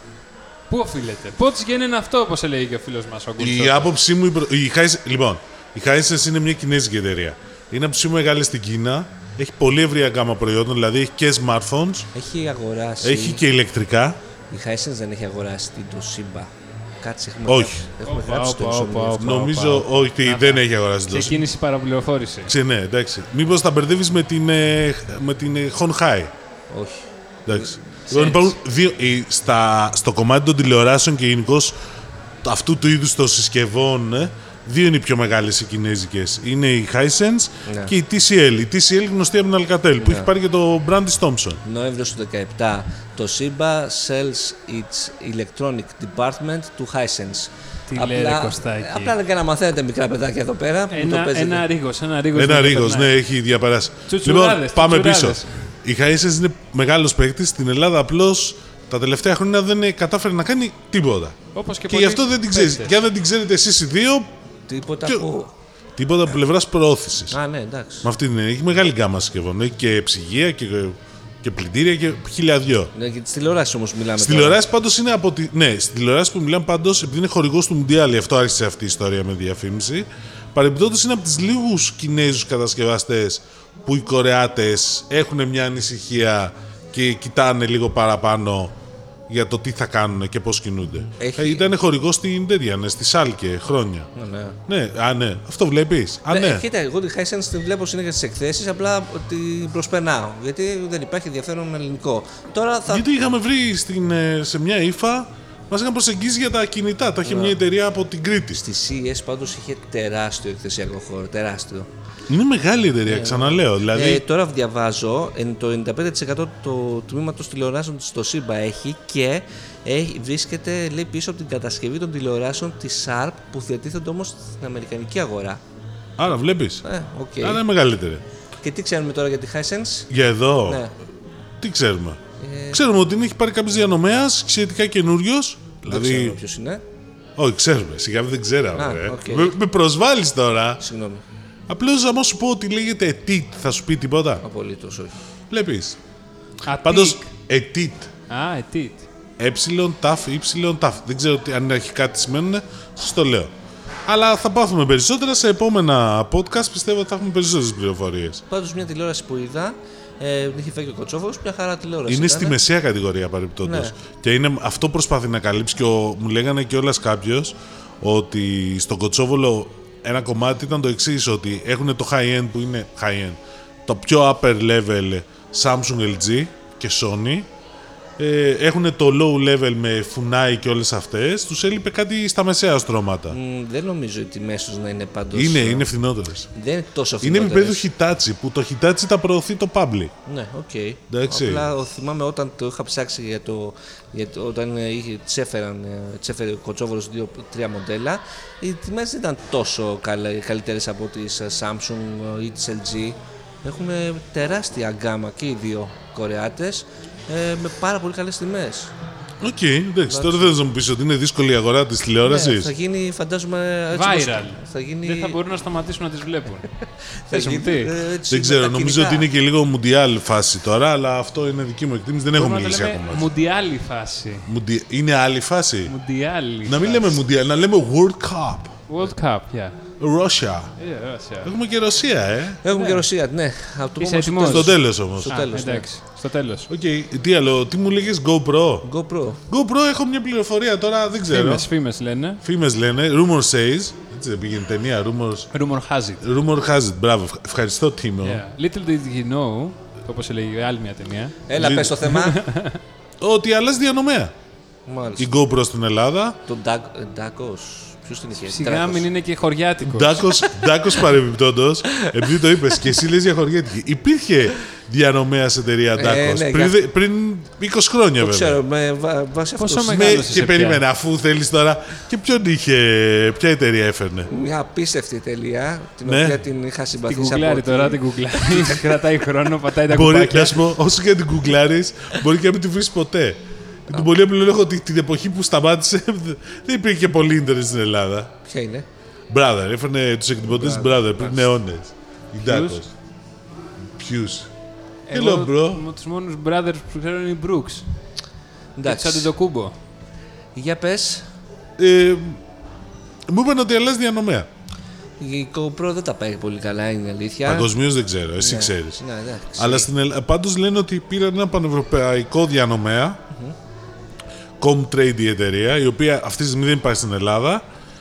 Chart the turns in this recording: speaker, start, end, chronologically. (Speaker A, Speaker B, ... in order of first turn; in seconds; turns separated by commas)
Speaker A: 0.7-3.9, Speaker B: 3.4-12.1, Speaker C: 12.1-13.4, Speaker B: 13.0-14.2, Speaker C: 14.5-19.4, Speaker B: 17.5-17.8, Speaker A: 18.0-22.5, Speaker B: 19.2-21.4, Speaker B: 22.5-26.3, Speaker C: 26.7-27.7, Speaker B: 27.4-31.7, Speaker A: 28.1-28.5, Speaker B: 32.4-41.6, Speaker C: 37.6-37.9, Speaker C: 40.0-40.3, Speaker C: 41.6-51.6, Speaker A: 47.9-49.1, Speaker A: 50.9-53.1, Speaker B: 52.3-61.4, Speaker A: 54.1-55.5, Speaker A: 61.5-62.9, Speaker B: 61.9-64.2, Speaker C: 64.7-65.5, Speaker B: 66.0-67.4, Speaker C: 67.3-68.1, Speaker B: 68.0-72.9, Speaker C: 72.9-74.6, Speaker B: 74.2-88.7, Speaker B: 89.3-94.1, Speaker C: 91.2-91.7, Speaker C: 94.2-94.6, Speaker B: 94.7-96.6, Speaker C: 96.3-103.2, Speaker B: 102.9-108.6, Speaker C: 107.2-107.6, Speaker C: 108.5-111.9, Speaker B: 112.3-114.2, Speaker C: 113.0-125.6, Speaker B: 126.2-126.8, Speaker C: 126.8-127.6, Speaker B: 127.4-128.2, Speaker C: 128.6-130.1, Speaker B: 130.1-130.8, Speaker C: 130.6-130.9, Speaker B: 131.6-132.2, Speaker C: 132.4-132.8, Speaker B: 132.7-136.4, Speaker C: 135.9-136.8, Speaker B: 137.4-140.8, Speaker C: 138.7-139.5, Speaker C: 140.8-141.2, Speaker B: 141.7-144.4, Speaker C: 144.4-145.2, Speaker B: 145.5-146.0, Speaker A: 146.7-147.3, Speaker B: 146.8-148.1, Speaker A: 148.3-149.0, Speaker B: 149.4-153.5, Speaker B: 154.1-158.4, Speaker C: 158.5-162.6, Speaker B: 162.1-177.5, Speaker C: 163.6-163.9, Speaker B: 178.2-183.4, Speaker C: 183.3-185.9, Speaker B: 185.3-186.5, Speaker C: 186.5-187.8, Speaker B: 187.2-190.1, Speaker C: 190.2-208.9, Speaker B: 191.1-191.7, Speaker B: 209.4-212.7, Speaker C: 210.1-210.6, Speaker C: 212.2-215.4, Speaker A: 213.9-216.7, Speaker C: 217.3-219.3, Speaker A: 217.3-217.9, Speaker B: 218.3-223.2, Speaker A: 222.3-224.4, Speaker B: 224.4-225.9, Speaker A: 225.9-227.2, Speaker B: 226.6-228.8, Speaker A: 228.9-229.8, Speaker B: 230.0-230.8, Speaker A: 230.8-231.5, Speaker B: 231.4-232.6, Speaker C: 232.6-235.9, Speaker A: 232.7-233.0, Speaker A: 234.0-236.7, Speaker B: 234.4-235.3, Speaker B: 236.7-238.9, Speaker C: 238.8-239.4, Speaker B: 239.5-241.7, Speaker A: 241.3-242.4, Speaker B: 242.4-245.5, Speaker A: 245.5-246.2, Speaker B: 246.2-248.4, Speaker A: 248.2-251.4, Speaker C: 251.5-252.4, Speaker B: 251.6-252.0, Speaker A: 252.0-252.8, Speaker B: 253.2-254.3, Speaker C: 254.9-255.4, Speaker B: 255.2-256.4, Speaker C: 256.4-259.1, Speaker A: 258.5-260.5, Speaker B: 259.8-268.6, Speaker C: 261.9-262.5, Speaker C: 265.9-266.8, Speaker C: 268.2-270.2, Speaker A: 269.6-270.8, Speaker B: 269.9-274.3, Speaker C: 274.3-278.0, Speaker B: 276.0-276.4, Speaker A: 277.1-280.6, Speaker B: 279.9-288.3, Speaker C: 288.4-288.9, Speaker B: 289.3-292.9, Speaker C: 290.4-291.5, Speaker A: 292.4-292.8, Speaker B: 294.0-294.5, Speaker A: 295.1-297.8, Speaker B: 295.1-295.8, Speaker C: 298.8-299.3, Speaker A: 298.8-299.7, Speaker C: 300.5-301.2, Speaker B: 301.8-302.4, Speaker B: 303.3-304.5, Speaker C: 305.2-307.7, Speaker B: 307.4-309.0, Speaker C: 308.4-309.9, Speaker B: 309.6-313.2, Speaker B: 314.6-317.6